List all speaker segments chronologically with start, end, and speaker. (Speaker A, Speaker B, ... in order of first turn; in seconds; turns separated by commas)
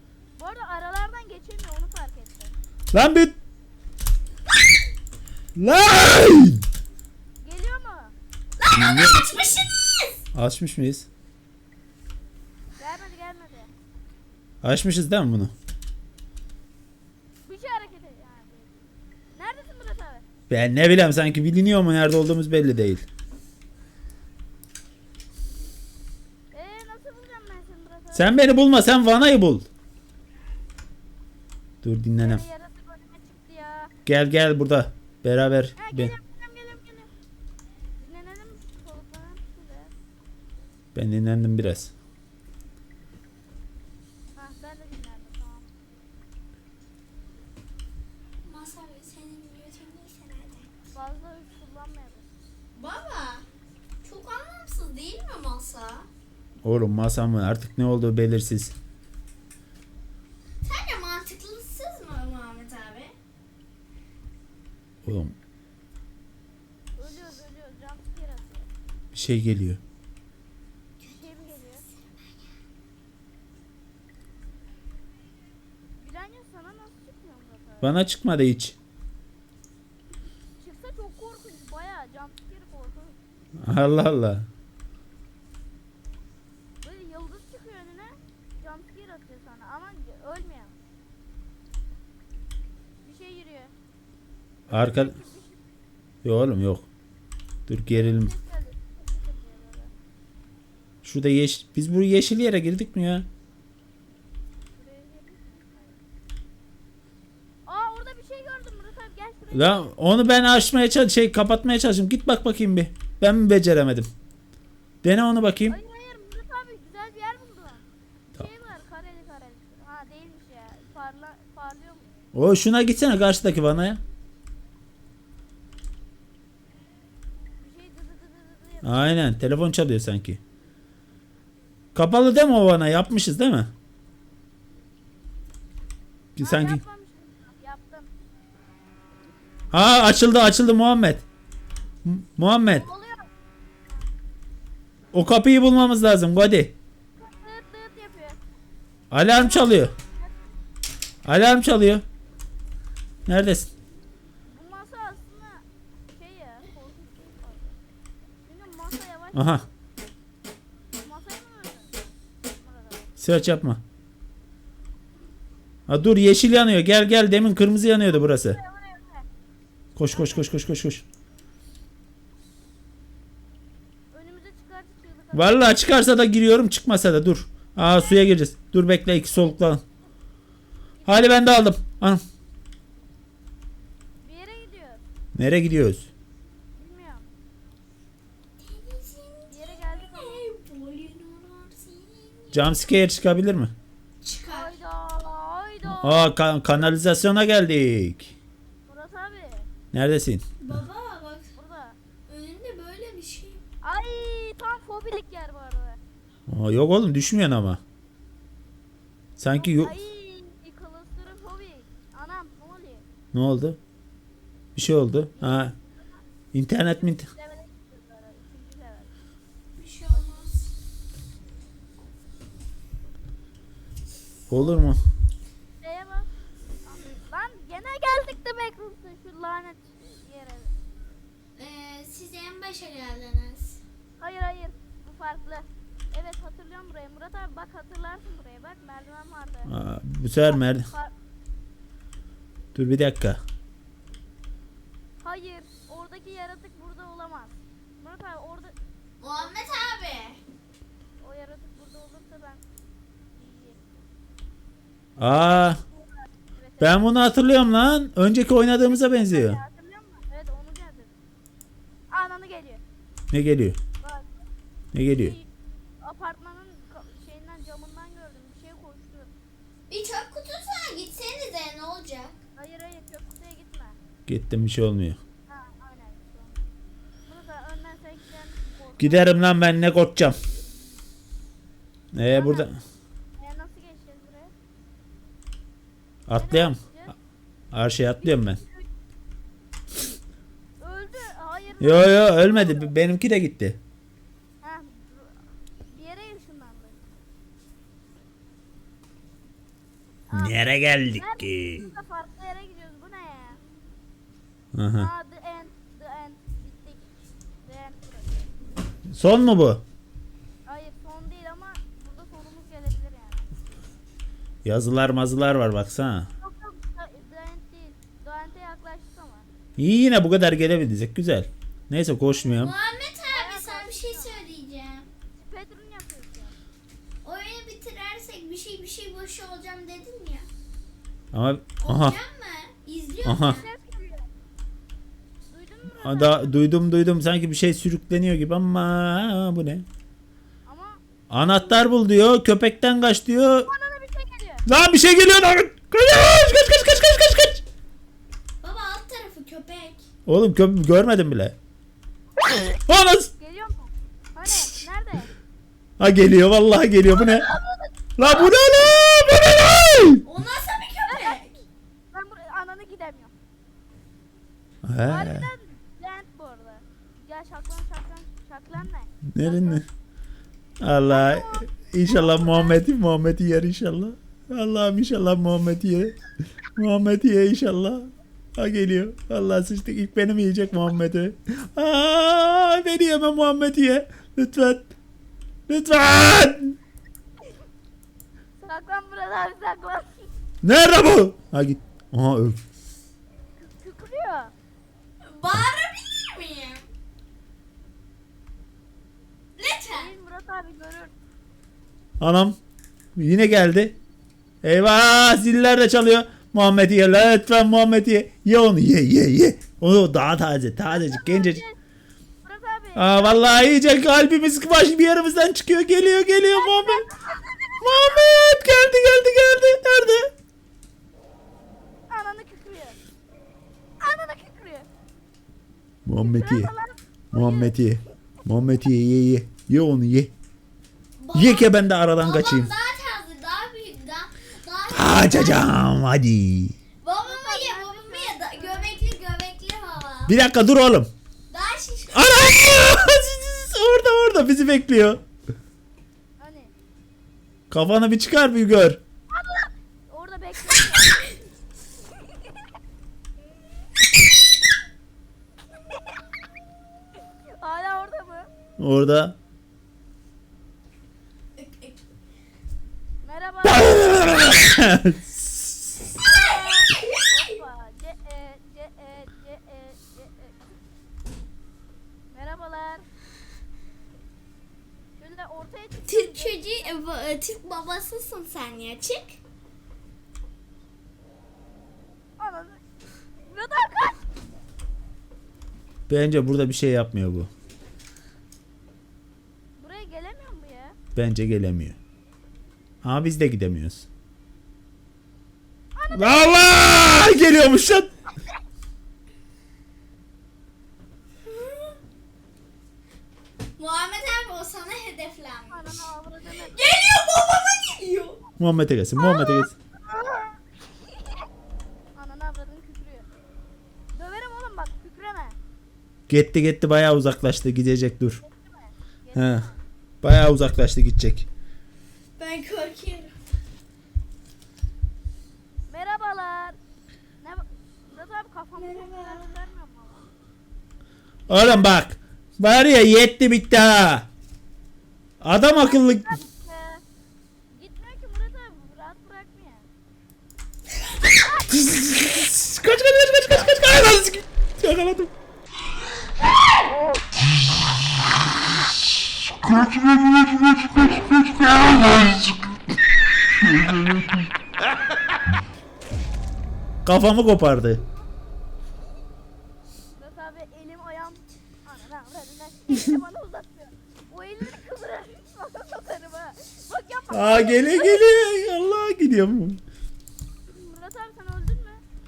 Speaker A: 0.4-2.5, Speaker B: 2.9-3.4, Speaker B: 5.6-6.6, Speaker A: 7.4-8.1, Speaker C: 8.6-10.2, Speaker B: 8.7-9.6, Speaker B: 10.3-11.1, Speaker A: 12.8-13.7, Speaker B: 14.6-15.5, Speaker A: 17.5-18.7, Speaker A: 19.3-20.2, Speaker B: 20.5-23.1, Speaker A: 26.5-28.4, Speaker B: 28.1-29.7, Speaker B: 31.8-32.4, Speaker A: 32.2-33.9, Speaker B: 34.1-36.1, Speaker A: 35.8-37.1, Speaker A: 38.0-39.9, Speaker B: 41.0-41.9, Speaker A: 44.4-45.7, Speaker C: 48.4-50.7, Speaker A: 50.9-52.3, Speaker C: 52.7-53.5, Speaker C: 54.0-56.1, Speaker B: 56.6-58.7, Speaker C: 60.6-63.1, Speaker B: 65.0-65.4, Speaker A: 67.0-68.7, Speaker B: 69.1-69.8, Speaker A: 71.0-71.8, Speaker C: 71.8-72.5, Speaker A: 76.0-78.0, Speaker B: 77.8-78.8, Speaker A: 80.6-83.2, Speaker B: 83.6-84.5, Speaker A: 86.8-90.7, Speaker A: 93.0-93.7, Speaker B: 94.7-95.2, Speaker A: 94.7-95.6, Speaker B: 96.2-96.9, Speaker B: 97.7-98.3, Speaker A: 97.9-99.9, Speaker B: 101.0-103.3, Speaker A: 104.8-106.0, Speaker A: 107.7-109.9, Speaker B: 109.5-114.1, Speaker B: 115.0-115.8, Speaker A: 115.7-122.1, Speaker B: 122.3-124.0, Speaker A: 127.6-129.1, Speaker B: 128.8-130.4, Speaker B: 131.9-133.7, Speaker B: 136.4-136.8, Speaker A: 136.4-138.1, Speaker B: 139.7-141.2, Speaker B: 142.1-142.9, Speaker A: 142.7-143.3, Speaker B: 145.1-146.7, Speaker A: 147.2-148.4, Speaker B: 149.1-149.9, Speaker A: 149.3-150.3, Speaker B: 151.2-152.0, Speaker B: 153.3-153.7, Speaker A: 154.5-157.8, Speaker A: 158.5-159.6, Speaker B: 159.3-159.7, Speaker A: 160.9-162.0, Speaker A: 162.6-163.1, Speaker B: 163.2-163.8, Speaker B: 165.9-168.6, Speaker A: 168.1-169.3, Speaker B: 170.0-171.0, Speaker A: 170.1-170.5, Speaker A: 174.1-175.8, Speaker B: 175.3-179.8, Speaker A: 177.8-178.2, Speaker A: 181.0-181.4, Speaker B: 181.1-182.2, Speaker A: 184.2-185.0, Speaker B: 185.3-186.1, Speaker A: 186.8-187.3, Speaker C: 188.6-192.8, Speaker A: 189.5-190.5, Speaker B: 192.5-193.7, Speaker C: 194.2-194.8, Speaker A: 194.5-196.3, Speaker B: 195.8-198.3, Speaker A: 198.9-199.7, Speaker B: 199.9-200.4, Speaker C: 200.6-201.5, Speaker A: 201.6-202.0, Speaker C: 202.3-203.6, Speaker A: 203.8-206.0, Speaker B: 206.5-207.8, Speaker B: 209.4-209.9, Speaker A: 209.6-213.1, Speaker B: 213.3-213.8, Speaker B: 214.8-215.7, Speaker A: 215.4-215.8, Speaker B: 216.5-217.3, Speaker A: 217.2-219.1, Speaker C: 219.8-220.6, Speaker A: 220.1-220.4, Speaker B: 224.5-225.0, Speaker A: 225.8-226.3, Speaker A: 226.8-230.7, Speaker C: 231.6-233.8, Speaker A: 234.2-239.7, Speaker B: 239.7-240.9, Speaker A: 240.4-241.1, Speaker B: 242.8-243.4, Speaker A: 245.2-249.8, Speaker C: 249.2-250.4, Speaker A: 251.2-252.6, Speaker A: 253.3-253.8, Speaker B: 255.2-255.8, Speaker A: 256.6-257.1, Speaker B: 256.8-259.6, Speaker A: 258.8-261.1, Speaker A: 262.1-262.8, Speaker B: 263.3-263.8, Speaker A: 264.0-264.3, Speaker B: 264.9-265.4, Speaker A: 265.2-265.5, Speaker A: 266.0-269.3, Speaker C: 269.9-272.4, Speaker A: 272.6-274.0, Speaker B: 274.3-275.2, Speaker A: 275.5-276.6, Speaker A: 277.3-279.4, Speaker B: 279.0-280.4, Speaker B: 282.1-282.8, Speaker A: 282.2-282.7, Speaker A: 283.4-284.5, Speaker B: 286.3-286.8, Speaker A: 286.4-287.2, Speaker B: 287.7-288.6, Speaker A: 288.2-288.9, Speaker A: 290.8-292.9, Speaker B: 291.8-293.8, Speaker A: 294.6-297.0, Speaker A: 300.3-300.6, Speaker B: 300.3-301.9, Speaker A: 301.2-303.6, Speaker B: 304.7-305.1, Speaker A: 305.0-307.1, Speaker A: 307.6-308.4, Speaker B: 309.1-309.8, Speaker A: 310.7-313.5, Speaker B: 314.6-316.3, Speaker A: 316.4-319.5, Speaker B: 319.8-322.8, Speaker C: 322.4-325.1, Speaker A: 323.3-324.5, Speaker A: 325.3-326.6, Speaker C: 327.2-330.5, Speaker B: 331.3-332.2, Speaker C: 331.8-333.7, Speaker B: 333.2-333.6, Speaker A: 333.4-334.3, Speaker A: 335.5-336.6, Speaker B: 336.0-339.9, Speaker A: 340.7-341.0, Speaker B: 341.3-343.7, Speaker A: 343.7-344.6, Speaker B: 344.7-347.6, Speaker C: 348.6-350.1, Speaker B: 350.3-351.6, Speaker B: 352.9-353.3, Speaker A: 353.4-355.3, Speaker B: 356.0-357.5, Speaker A: 357.2-357.9, Speaker B: 358.2-360.2, Speaker C: 360.2-361.6, Speaker A: 361.1-361.4, Speaker A: 362.1-363.3, Speaker B: 364.8-365.5, Speaker A: 365.1-369.8, Speaker B: 369.3-369.9, Speaker B: 370.8-376.2, Speaker A: 371.1-372.8, Speaker B: 376.8-384.9, Speaker B: 385.7-386.8, Speaker A: 388.6-390.3, Speaker B: 390.6-392.6, Speaker A: 393.6-394.5, Speaker C: 395.2-396.9, Speaker C: 399.6-400.1, Speaker A: 399.9-401.1, Speaker B: 402.2-402.6, Speaker B: 403.2-403.9, Speaker B: 404.6-411.6, Speaker A: 410.9-411.8, Speaker A: 412.4-413.6, Speaker B: 412.9-417.1, Speaker A: 416.5-418.3, Speaker B: 417.8-420.3, Speaker A: 422.1-423.0, Speaker A: 424.0-424.9, Speaker B: 426.1-426.7, Speaker A: 426.2-427.7, Speaker B: 427.3-430.3, Speaker C: 431.2-435.8, Speaker B: 431.3-432.7, Speaker B: 434.9-436.8, Speaker C: 437.0-440.4, Speaker A: 437.2-439.1, Speaker B: 440.3-441.1, Speaker C: 441.5-442.8, Speaker B: 442.1-445.2, Speaker A: 446.4-446.7, Speaker B: 447.7-449.0, Speaker A: 449.3-451.5, Speaker A: 457.5-458.5, Speaker B: 458.8-459.4, Speaker C: 461.6-462.0, Speaker A: 463.2-464.6, Speaker B: 463.7-465.9, Speaker A: 466.2-470.6, Speaker C: 466.3-467.6, Speaker A: 472.3-473.1, Speaker A: 475.2-477.0, Speaker C: 476.1-479.4, Speaker A: 482.4-482.8, Speaker A: 483.5-484.2, Speaker B: 486.1-487.5, Speaker A: 489.8-491.0, Speaker B: 491.1-492.0, Speaker B: 493.0-494.1, Speaker A: 495.9-497.3, Speaker B: 496.1-498.1, Speaker C: 501.5-502.0, Speaker C: 503.8-506.1, Speaker A: 505.7-506.9, Speaker C: 506.6-508.4, Speaker B: 508.6-509.8, Speaker A: 509.2-510.6, Speaker A: 512.1-513.3, Speaker A: 514.1-515.6, Speaker B: 516.3-518.4, Speaker A: 518.4-519.8, Speaker B: 519.4-519.7, Speaker B: 520.2-521.5, Speaker C: 522.4-523.3, Speaker A: 525.9-526.8, Speaker A: 527.4-530.2, Speaker C: 528.8-529.5, Speaker A: 531.5-531.9, Speaker B: 531.5-534.3, Speaker B: 535.4-536.4, Speaker A: 535.8-537.0, Speaker A: 537.7-539.9, Speaker A: 541.5-541.8, Speaker B: 541.7-545.3, Speaker B: 557.0-558.0, Speaker A: 560.2-568.6, Speaker B: 567.3-569.8, Speaker A: 570.7-572.0